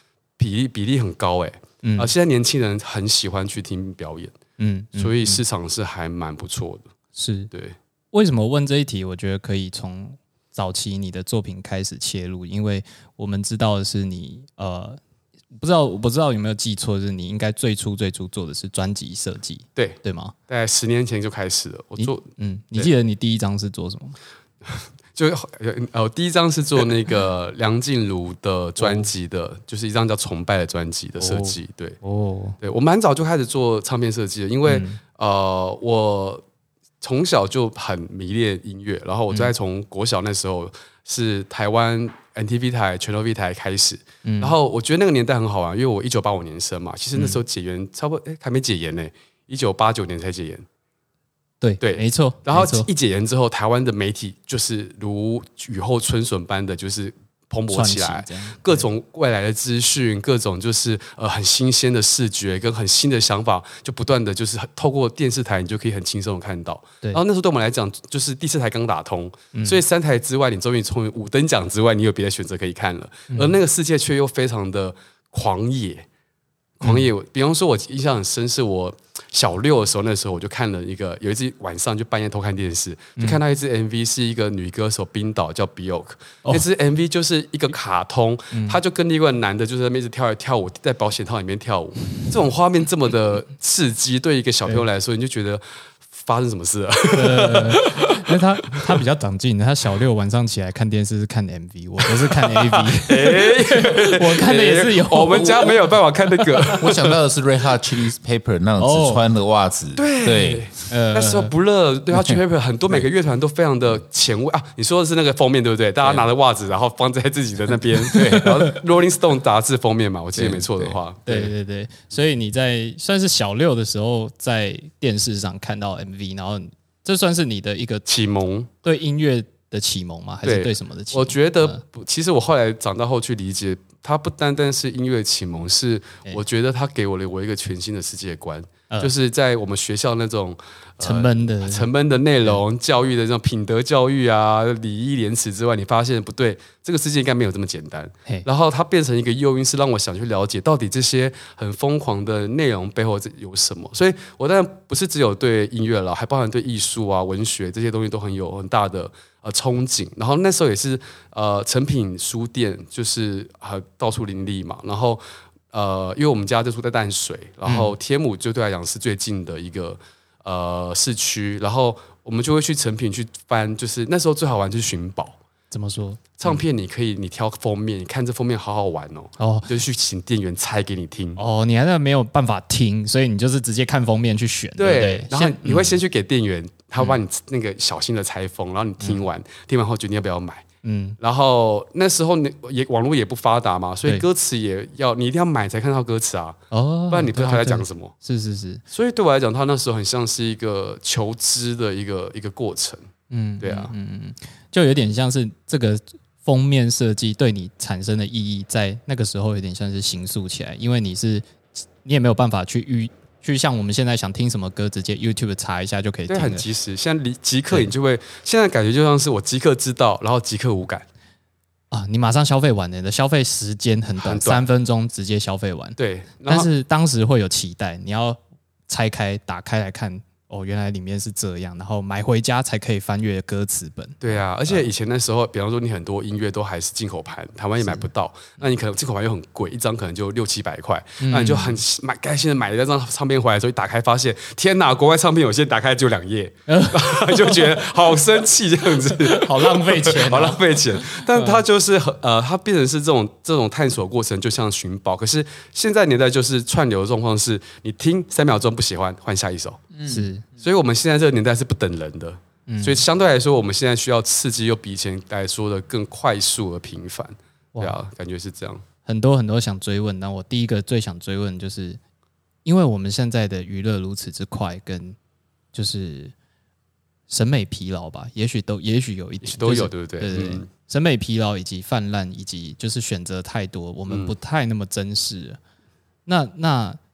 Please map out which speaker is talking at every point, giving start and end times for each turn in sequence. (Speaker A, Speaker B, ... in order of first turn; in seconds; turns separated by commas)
Speaker A: 0.4-4.3, Speaker B: 1.8-2.1, Speaker B: 4.6-5.4, Speaker A: 5.0-6.8, Speaker B: 7.1-7.5, Speaker A: 7.5-7.8, Speaker B: 8.1-15.0, Speaker B: 15.6-20.3, Speaker A: 19.8-22.9, Speaker B: 22.0-24.2, Speaker A: 24.6-32.0, Speaker B: 28.8-29.1, Speaker B: 31.2-32.6, Speaker A: 32.6-36.4, Speaker B: 34.6-35.0, Speaker A: 37.0-50.6, Speaker B: 44.2-44.5, Speaker B: 47.1-47.4, Speaker B: 51.6-52.9, Speaker A: 51.8-76.0, Speaker B: 57.7-58.8, Speaker B: 69.5-69.8, Speaker A: 76.8-99.0, Speaker B: 76.8-77.1, Speaker B: 88.5-88.8, Speaker B: 97.1-105.7, Speaker A: 102.4-107.0, Speaker C: 106.8-110.7, Speaker B: 108.8-109.2, Speaker A: 109.9-121.5, Speaker B: 110.9-111.5, Speaker C: 112.1-112.4, Speaker B: 118.0-118.7, Speaker C: 120.4-121.0, Speaker B: 121.2-128.1, Speaker A: 128.1-128.7, Speaker B: 128.8-131.8, Speaker A: 130.4-175.4, Speaker B: 141.0-141.9, Speaker B: 167.6-167.9, Speaker B: 175.7-176.6, Speaker A: 176.4-181.4, Speaker B: 179.4-179.7, Speaker B: 181.4-186.0, Speaker A: 184.8-190.6, Speaker B: 190.8-191.2, Speaker A: 191.2-196.6, Speaker B: 196.7-198.8, Speaker A: 197.1-198.1, Speaker A: 198.9-203.1, Speaker B: 203.3-216.6, Speaker A: 203.6-203.9, Speaker A: 216.3-221.1, Speaker B: 221.9-234.9, Speaker A: 224.2-224.6, Speaker A: 226.0-226.7, Speaker A: 234.2-259.9, Speaker B: 241.2-241.8, Speaker B: 246.7-247.7, Speaker B: 249.3-251.6, Speaker C: 259.9-260.3, Speaker B: 260.1-260.4, Speaker A: 260.6-268.8, Speaker B: 262.7-263.0, Speaker B: 269.0-272.0, Speaker B: 272.6-275.2, Speaker B: 275.7-276.3, Speaker B: 277.3-285.6, Speaker A: 279.4-280.7, Speaker A: 284.1-284.3, Speaker B: 286.2-287.0